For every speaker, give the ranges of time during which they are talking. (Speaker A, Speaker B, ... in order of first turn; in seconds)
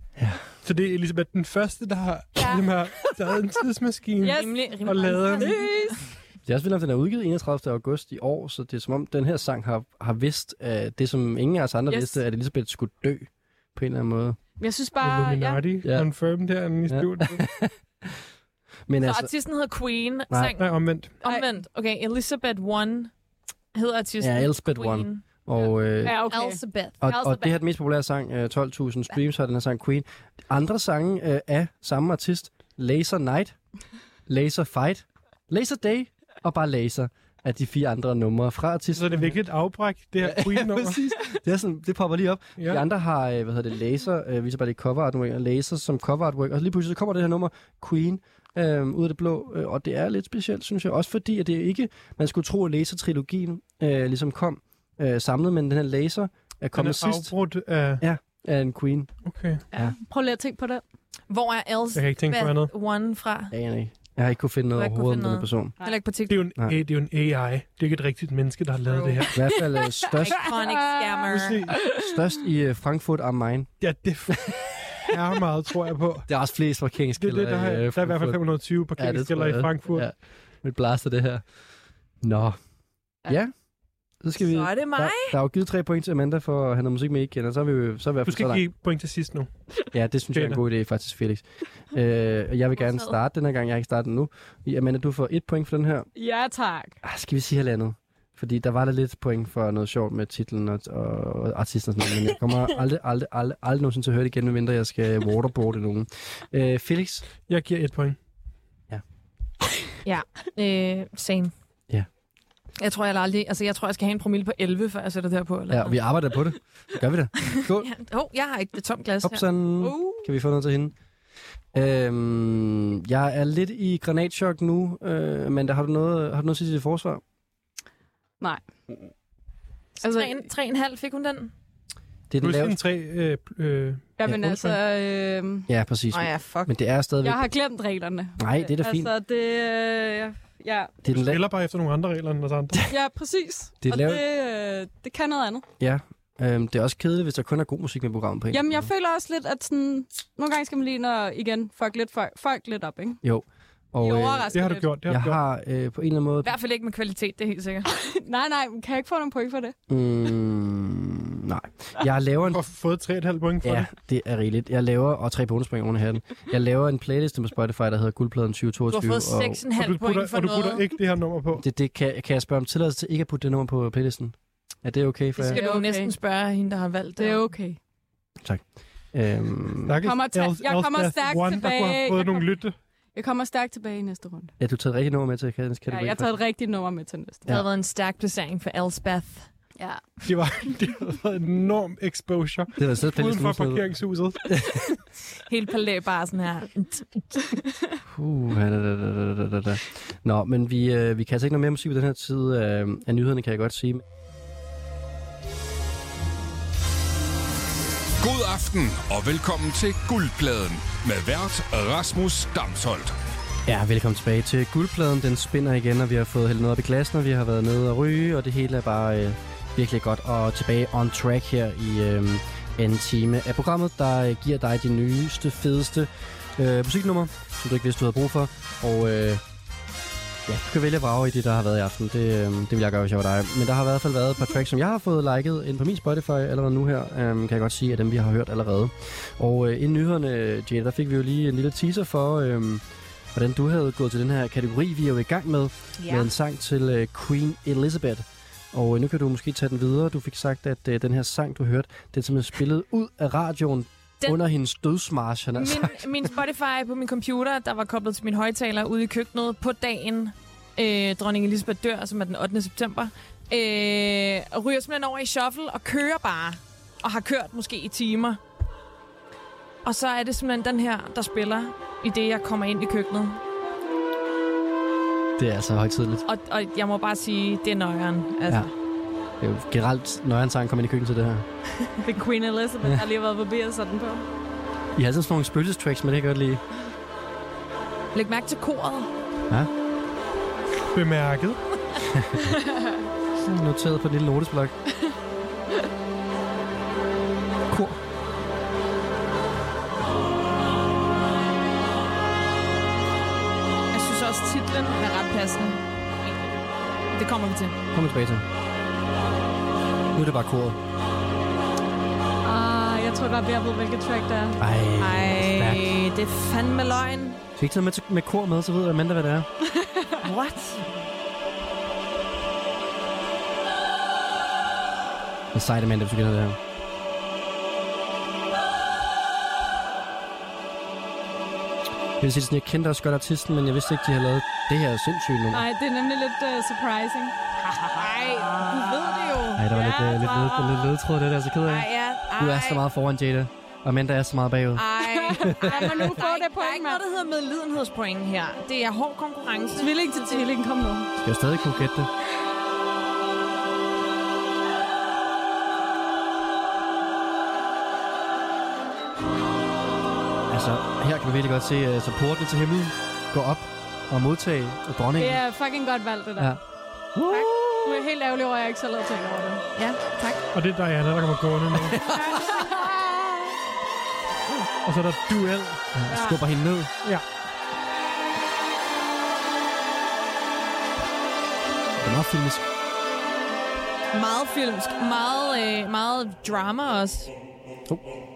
Speaker A: 0.2-0.4, 6.4-14.4, 15.8-16.1, 16.9-18.1, 18.9-19.3, 24.2-26.2, 27.0-33.5, 34.3-39.4, 40.2-57.3, 58.0-59.1, 63.5-65.7, 69.3-70.5, 71.9-73.7, 74.3-74.5, 76.3-78.4, 78.9-81.4, 82.2-82.6, 83.2-83.5, 84.2-88.6, 89.9-96.1, 97.0-107.2, 115.7-117.9, 119.2-121.0, 121.7-127.2, 132.3-132.8, 134.2-134.8, 135.7-137.5, 138.4-139.1, 141.0-141.4, 143.8-144.2, 145.8-148.9, 153.2-154.5, 155.1-156.5, 159.9-162.6, 163.6-169.6, 171.6-175.6, 178.4-180.0, 184.6-186.3, 192.8-194.8, 198.1-204.0, 213.7-229.4, 230.5-242.8, 243.3-256.1, 275.4-276.2, 279.4-281.4, 284.9-286.6, 292.1-292.5, 293.4-294.7, 297.7-298.0, 307.9-308.4, 310.1-310.8, 314.6-315.9, 317.6-319.5, 325.5-326.6, 332.2-335.7, 339.6-346.1, 351.2-352.1, 360.5-365.4, 367.1-368.0, 371.7-372.4, 375.9-376.9, 382.0-382.6
Speaker B: 0.6-5.6, 15.0-17.4, 20.6-21.1, 38.9-41.0, 42.6-42.8, 56.7-58.0, 59.2-59.6, 61.9-62.7, 66.3-69.4, 71.3-71.8, 73.8-76.3, 77.2-80.0, 88.2-89.5, 90.3-90.6, 107.5-108.2, 132.4-134.1, 141.1-142.8, 154.5-155.4, 162.5-163.9, 169.7-171.6, 179.8-182.7, 190.2-194.9, 290.9-291.6, 370.5-372.0, 374.8-375.8
Speaker C: 2.4-3.1, 4.2-4.8, 5.3-6.1, 11.9-12.2, 14.6-15.6, 26.0-26.6, 59.7-60.8, 69.5-72.2, 96.2-97.0, 130.0-130.4, 134.2-135.7, 137.2-140.9, 142.9-145.6, 148.5-153.2, 157.9-159.7, 175.4-176.1, 177.2-177.8, 180.0-182.5, 183.1-184.5, 185.9-187.5, 189.8-190.0, 282.0-284.2, 312.4-314.6, 319.8-320.1, 335.5-337.3, 338.0-340.8, 345.1-347.0, 349.8-351.1, 365.2-366.6, 367.8-369.6, 372.1-373.4, 376.1-376.4
Speaker D: 4.3-5.9, 19.0-23.1, 23.7-25.2, 26.1-27.5, 61.3-63.5, 64.7-66.5, 68.8-69.3, 70.1-71.6, 84.4-85.4, 92.8-93.1, 110.0-111.5, 112.8-116.0, 117.5-120.3, 130.0-131.5, 136.1-136.7, 154.0-154.9, 156.4-157.9, 168.9-170.9, 175.4-177.4, 187.5-189.5, 195.5-197.3, 246.0-246.3, 255.5-268.4, 269.8-273.4, 276.2-278.7, 288.1-289.1, 303.9-305.8, 307.1-307.8, 315.0-317.4, 320.2-320.9, 337.6-339.6, 341.6-342.8, 344.7-350.4, 369.8-370.4, 384.1-387.3
Speaker E: 208.2-213.1